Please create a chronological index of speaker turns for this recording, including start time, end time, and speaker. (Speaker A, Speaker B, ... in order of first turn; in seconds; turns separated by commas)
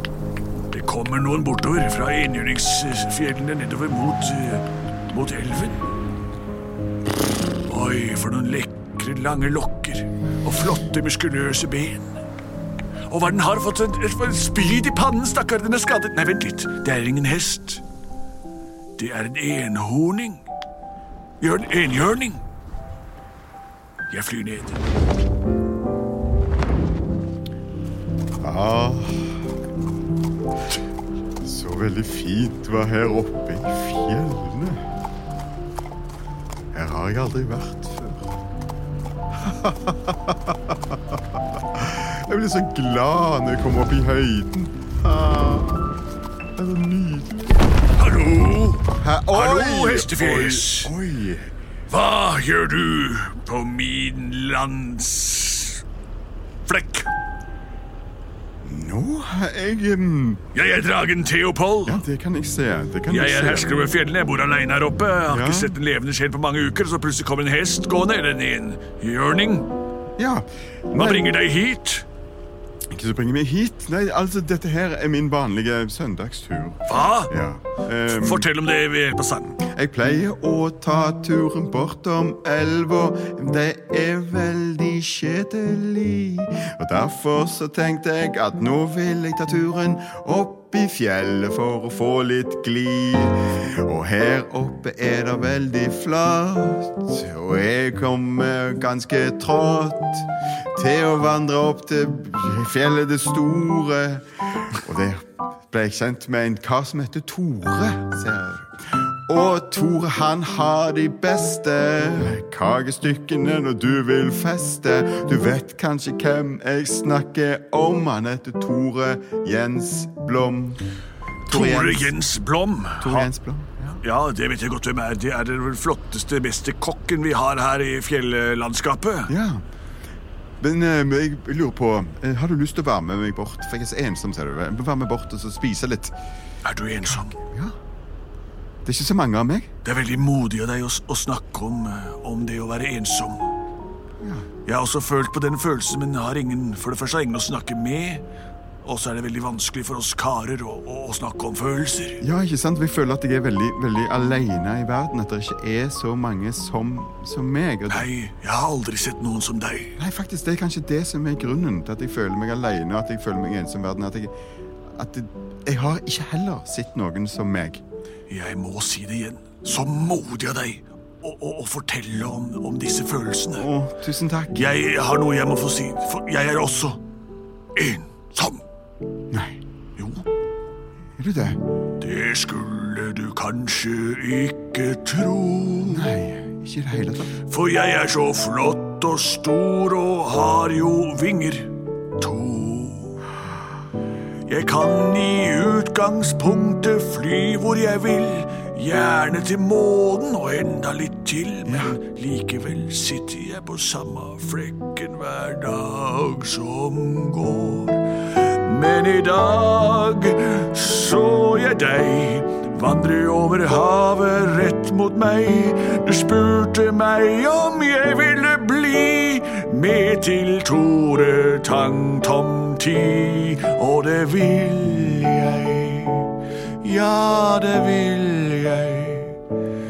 Speaker A: 0.7-5.8, Speaker A: 7.7-12.2, Speaker A: 13.1-17.8, Speaker A: 19.0-20.4, Speaker A: 21.4-22.4, Speaker A: 24.1-24.8, Speaker B: 28.4-29.4, Speaker B: 31.4-34.8, Speaker B: 36.7-38.2, Speaker B: 39.4-40.7, Speaker B: 41.7-46.0, Speaker B: 46.6-47.6, Speaker A: 48.0-50.9, Speaker B: 49.0-51.5, Speaker A: 51.9-55.8, Speaker A: 56.7-57.1, Speaker B: 58.6-60.4, Speaker A: 60.5-62.0, Speaker B: 61.8-63.7, Speaker A: 63.1-69.7, Speaker B: 65.3-65.7, Speaker B: 70.2-71.3, Speaker A: 70.9-72.0, Speaker B: 72.9-78.5, Speaker A: 76.9-77.3, Speaker A: 78.0-79.6, Speaker B: 79.6-120.8, Speaker B: 121.5-122.2, Speaker A: 121.5-123.3, Speaker B: 123.0-124.0, Speaker A: 124.0-129.3, Speaker B: 129.3-129.6, Speaker B: 130.6-136.1, Speaker A: 136.6-137.3, Speaker B: 137.0-137.7, Speaker B: 138.8-139.7, Speaker A: 139.8-143.5, Speaker B: 144.2-144.5, Speaker A: 144.6-148.2, Speaker A: 148.8-152.2, Speaker B: 152.2-158.1, Speaker A: 157.9-160.0, Speaker B: 160.0-164.3, Speaker B: 164.9-167.8, Speaker A: 168.3-173.7, Speaker B: 173.5-174.7, Speaker A: 174.5-177.0, Speaker A: 177.8-178.6, Speaker B: 179.3-179.6, Speaker A: 180.0-180.2, Speaker B: 181.2-181.6, Speaker A: 182.0-186.1, Speaker B: 185.8-187.4, Speaker A: 187.5-193.2, Speaker A: 194.5-229.4